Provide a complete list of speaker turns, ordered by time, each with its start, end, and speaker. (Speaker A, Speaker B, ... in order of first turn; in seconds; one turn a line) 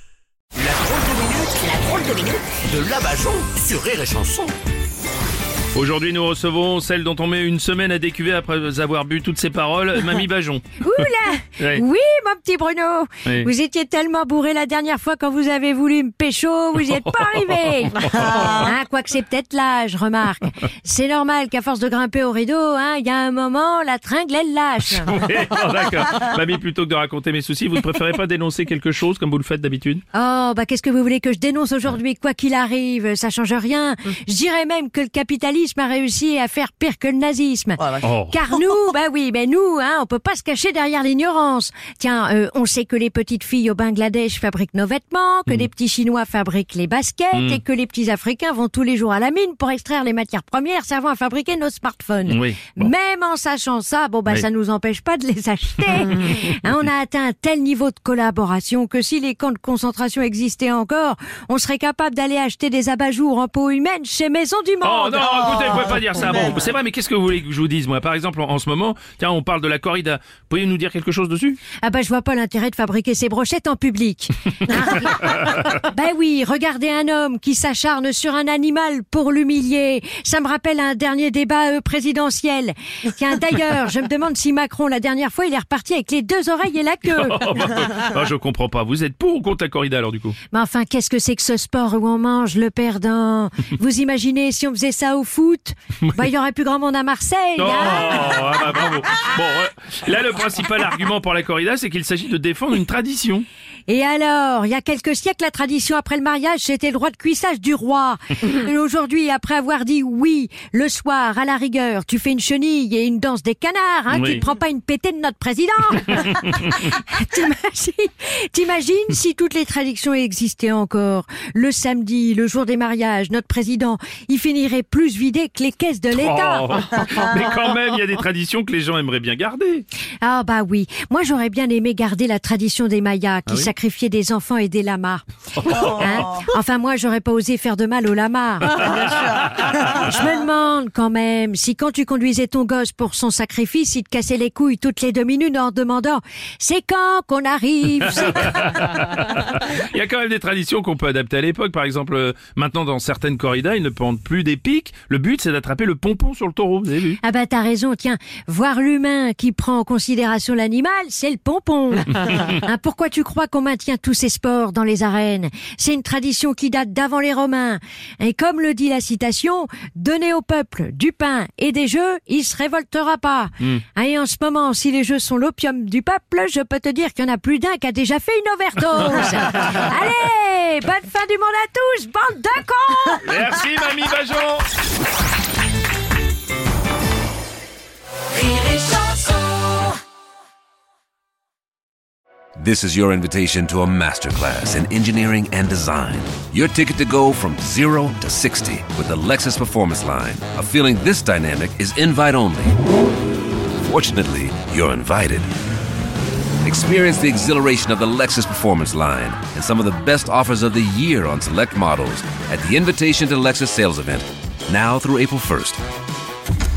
Speaker A: 0.5-4.5
Speaker B: 5.7-11.8
Speaker C: 10.8-25.1
Speaker B: 16.9-18.6
Speaker B: 24.9-30.0
Speaker C: 30.1-65.3
Speaker B: 38.0-38.4
Speaker B: 47.3-47.6
Speaker B: 52.2-52.9
Speaker B: 56.1-56.5
Speaker B: 64.8-71.6
Speaker C: 71.8-87.4
Speaker B: 87.1-90.4
Speaker C: 90.5-99.2
Speaker B: 97.6-103.5
Speaker C: 103.9-127.0
Speaker B: 114.1-114.4
Speaker B: 116.1-116.3
Speaker B: 126.1-129.8
Speaker C: 130.2-148.7
Speaker B: 135.6-136.4
Speaker B: 138.7-140.1
Speaker B: 148.0-157.2
Speaker C: 157.2-183.3
Speaker B: 179.1-179.8
Speaker B: 183.2-184.7
Speaker C: 188.5-188.7
Speaker D: 192.6-202.8
Speaker D: 203.8-205.5
Speaker D: 206.6-215.8